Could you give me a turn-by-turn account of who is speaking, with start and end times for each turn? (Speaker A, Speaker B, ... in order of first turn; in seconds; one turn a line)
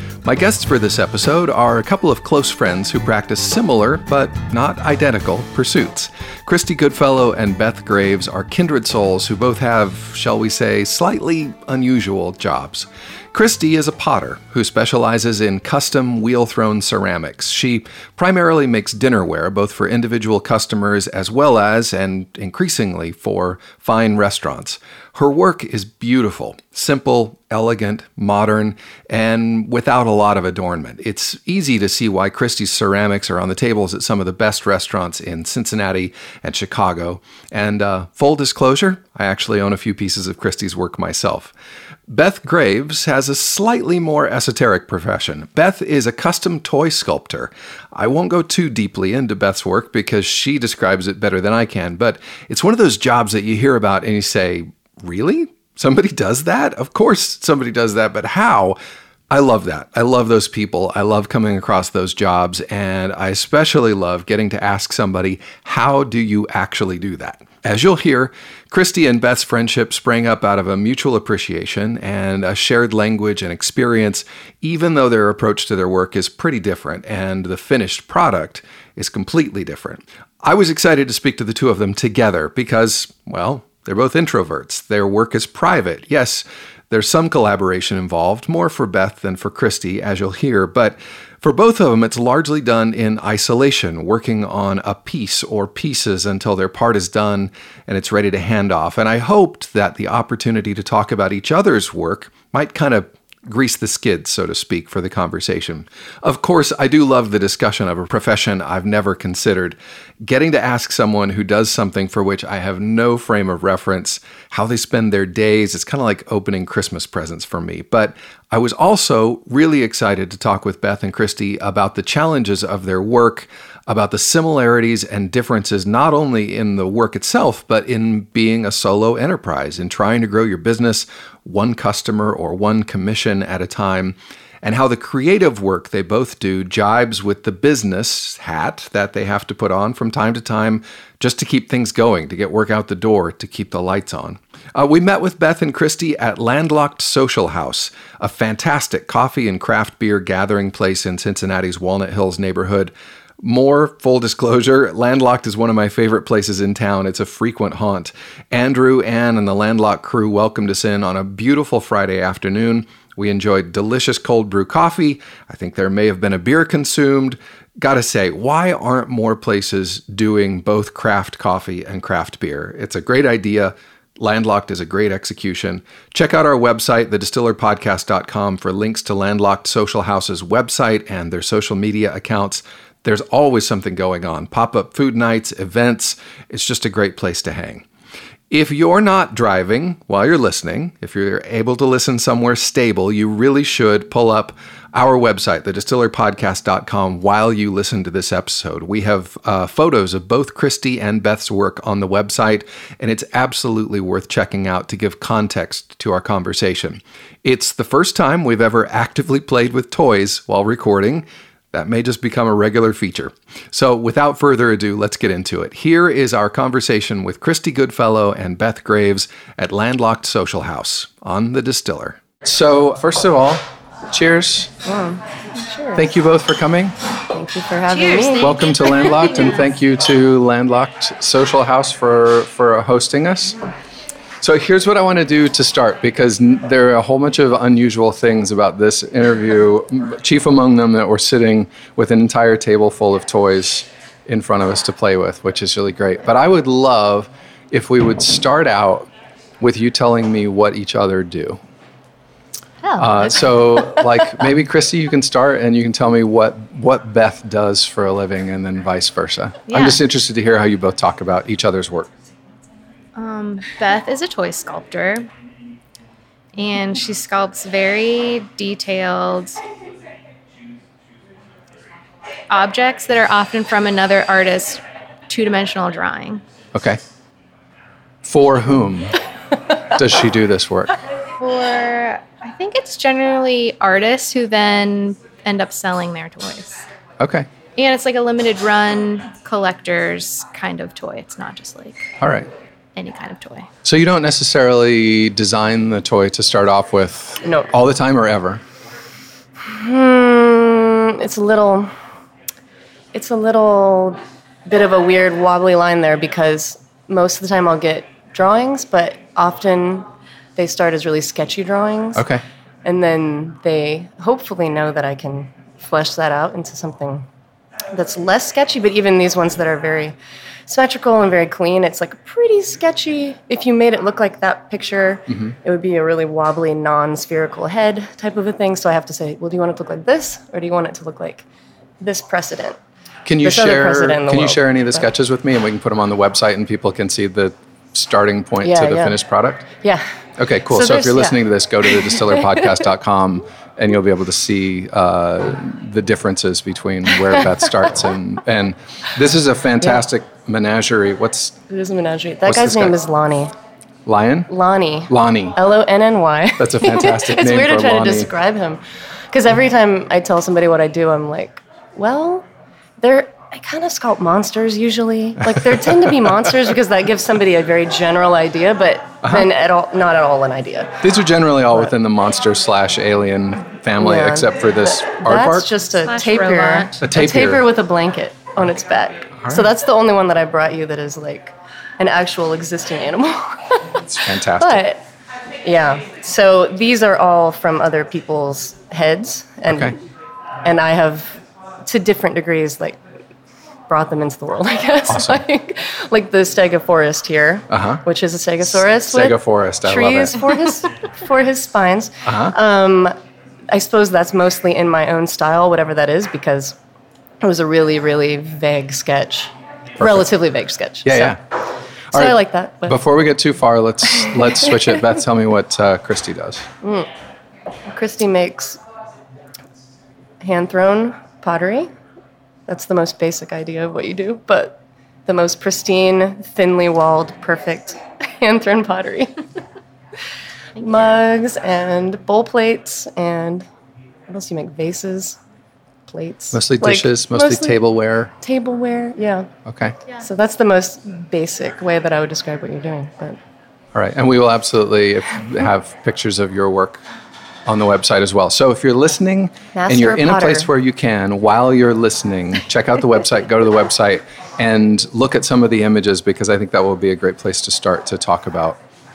Speaker A: 0.2-41.5
Speaker A: 42.1-58.8
Speaker A: 59.3-187.8
Speaker A: 188.5-224.7
Speaker B: 224.8-226.1
Speaker A: 225.9-227.0
Speaker B: 227.3-228.6
Speaker C: 227.9-229.7
Speaker A: 228.4-233.6
Speaker A: 234.4-249.1
Speaker A: 249.6-251.6
Speaker C: 252.8-253.3
Speaker A: 253.0-262.1
Speaker C: 259.7-260.0
Speaker C: 263.2-265.3
Speaker C: 266.6-269.6
Speaker C: 272.5-276.4
Speaker A: 276.8-277.0
Speaker A: 278.2-279.2
Speaker A: 279.9-281.0
Speaker C: 281.4-286.9
Speaker A: 287.2-287.5
Speaker C: 287.8-292.1
Speaker A: 292.2-292.5
Speaker C: 293.0-293.7
Speaker A: 293.8-298.6
Speaker B: 297.4-297.7
Speaker B: 299.6-301.9
Speaker B: 303.1-312.2
Speaker A: 312.1-312.4
Speaker B: 312.8-317.3
Speaker B: 317.9-320.2
Speaker B: 320.7-331.4
Speaker A: 325.3-325.6
Speaker B: 332.0-332.8
Speaker A: 333.3-339.7
Speaker B: 333.4-335.1
Speaker B: 338.6-339.2
Speaker B: 339.8-340.1
Speaker A: 340.4-351.6
Speaker B: 340.7-342.7
Speaker B: 351.7-353.5
Speaker A: 352.5-352.9
Speaker A: 354.1-354.5
Speaker B: 354.5-358.8
Speaker A: 355.1-355.6
Speaker A: 356.6-358.3
Speaker B: 359.3-362.5
Speaker B: 363.0-371.0
Speaker A: 369.2-369.5
Speaker A: 371.0-375.7
Speaker B: 374.0-385.0
Speaker C: 376.0-377.0
Speaker A: 377.0-377.6
Speaker A: 379.4-379.7
Speaker A: 384.1-384.8
Speaker B: 385.6-390.0
Speaker A: 389.7-389.9
Speaker B: 390.6-393.0
Speaker B: 393.9-403.1
Speaker A: 395.1-395.4
Speaker A: 397.7-398.0
Speaker A: 398.8-400.5
Speaker A: 402.3-402.6
Speaker B: 403.7-406.8
Speaker B: 407.4-411.4
Speaker A: 410.0-410.3
Speaker A: 411.1-411.4
Speaker B: 412.1-413.0
Speaker A: 412.1-416.6
Speaker B: 416.8-417.1
Speaker B: 417.9-418.8
Speaker B: 420.4-421.9
Speaker B: 422.7-429.3
Speaker B: 430.8-433.7
Speaker B: 434.3-435.4
Speaker B: 436.1-437.8
Speaker A: 436.5-438.3
Speaker B: 438.4-439.5
Speaker A: 439.7-440.0
Speaker B: 440.2-443.4
Speaker A: 443.9-447.0
Speaker A: 447.7-458.8
Speaker B: 449.8-450.7